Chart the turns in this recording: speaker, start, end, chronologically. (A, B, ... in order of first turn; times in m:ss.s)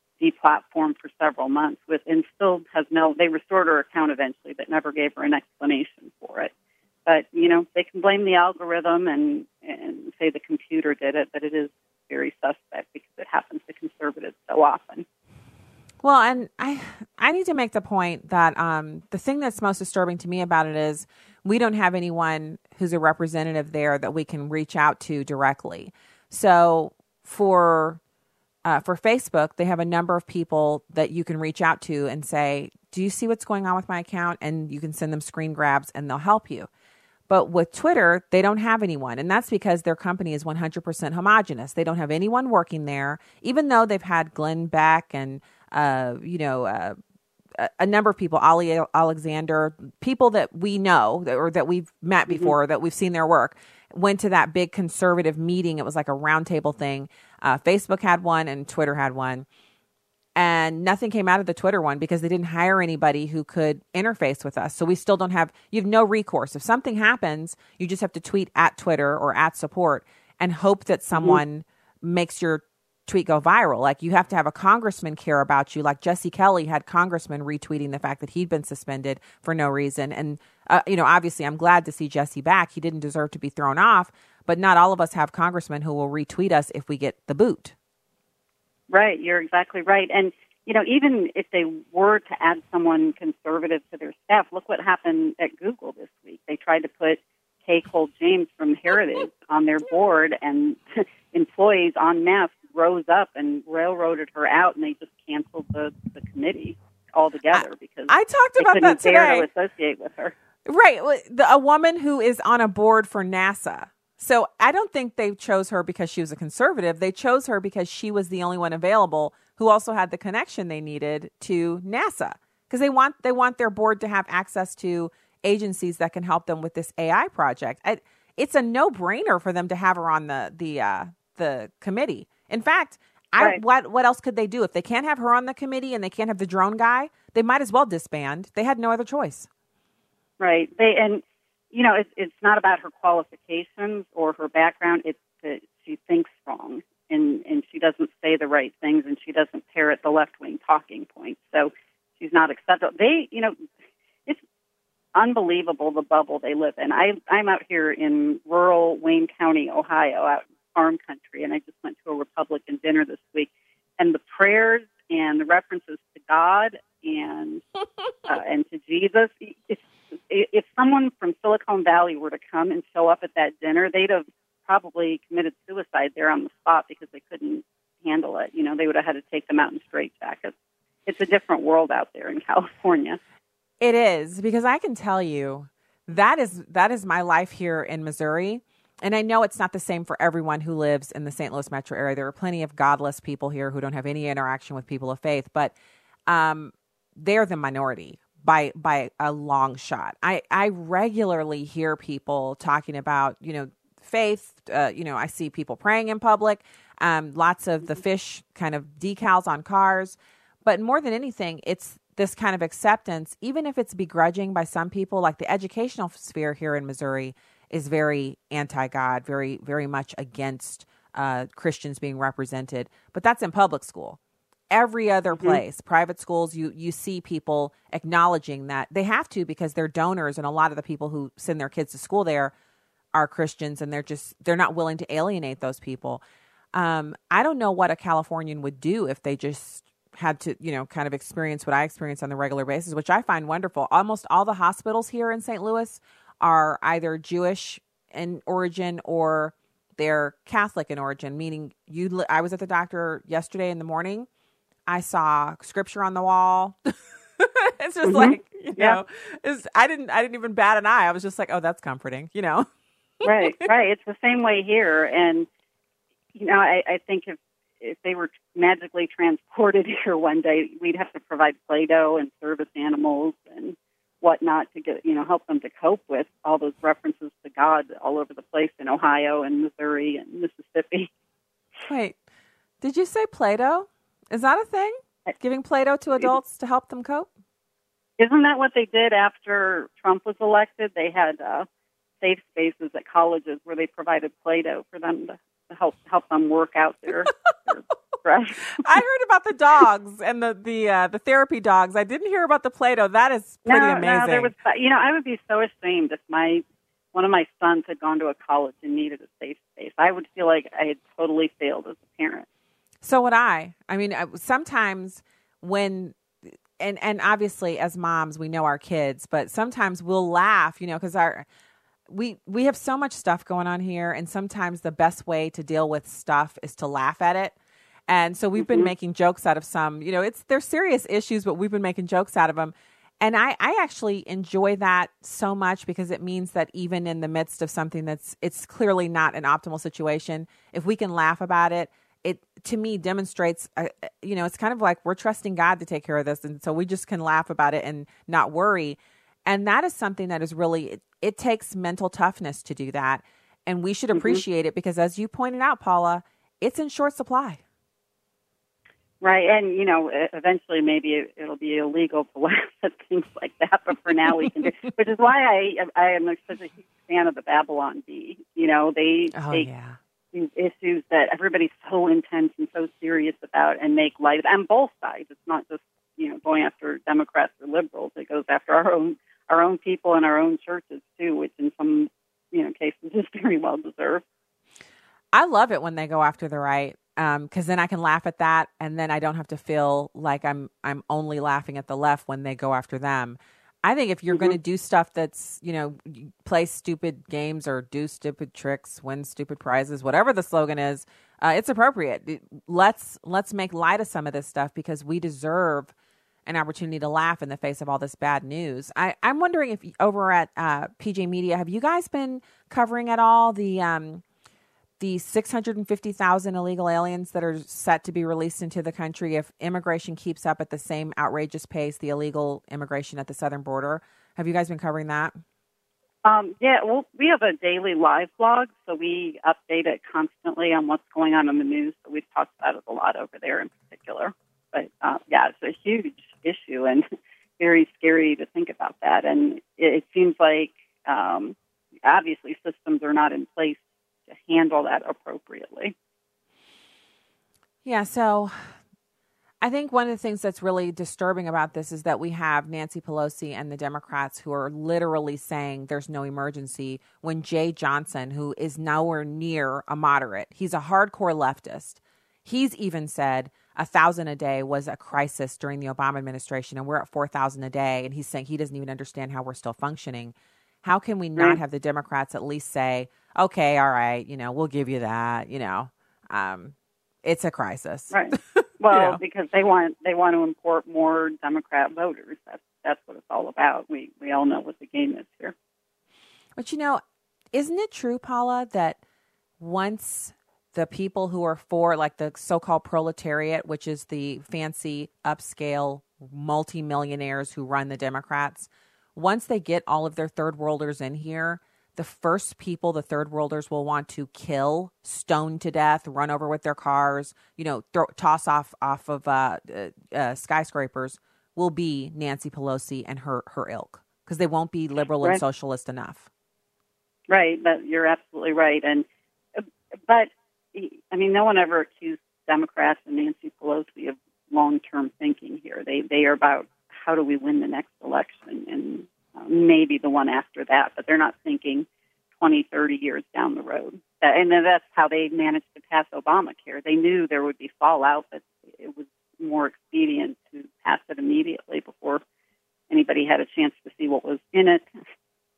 0:00.2-0:06.5 A
0:07.0-0:15.0 A
0:16.0-0:28.0 B
0:28.6-0:36.7 B
0:37.3-0:47.0 B
0:47.6-0:59.4 B
1:00.4-1:27.7 B
1:11.1-1:11.4 A
1:28.9-1:50.3 A
1:47.5-1:49.4 B
1:50.6-2:19.5 B
2:20.4-2:33.5 A
2:35.1-2:47.6 A
2:48.3-3:00.5 A
3:01.1-3:03.2 A
3:03.8-3:15.7 B
3:16.3-3:44.2 B
3:44.7-3:52.5 B
3:45.3-3:45.6 A
3:53.1-3:56.2 B
3:56.7-4:14.3 B
4:14.9-4:22.7 B
4:18.0-4:19.0 A
4:23.2-4:25.5 A
4:26.3-4:41.1 A
4:41.8-4:42.2 B
4:42.8-4:47.3 B
4:48.2-4:51.6 A
4:52.2-4:58.8 A
4:58.7-5:04.5 B
5:03.6-5:06.6 A
5:07.1-5:12.5 A
5:13.0-5:16.2 B
5:16.8-5:21.4 B
5:22.1-5:27.5 B
5:28.1-5:57.6 B
5:28.6-5:28.9 A
5:54.1-5:54.4 A
5:59.2-6:09.7 A
6:09.3-6:10.0 B
6:10.3-6:24.2 A
6:25.3-6:45.9 B
6:46.4-6:54.2 B
6:55.0-7:05.4 B
7:06.2-7:17.0 A
7:17.6-7:23.8 A
7:24.3-7:25.9 A
7:27.8-7:28.7 B
7:29.6-7:59.2 B
7:58.1-8:05.5 A
8:06.6-8:07.0 B
8:07.5-8:09.0 B
8:09.6-8:36.3 B
8:37.3-8:39.0 A
8:39.6-8:51.8 A
8:52.4-9:02.2 A
9:02.9-9:04.8 A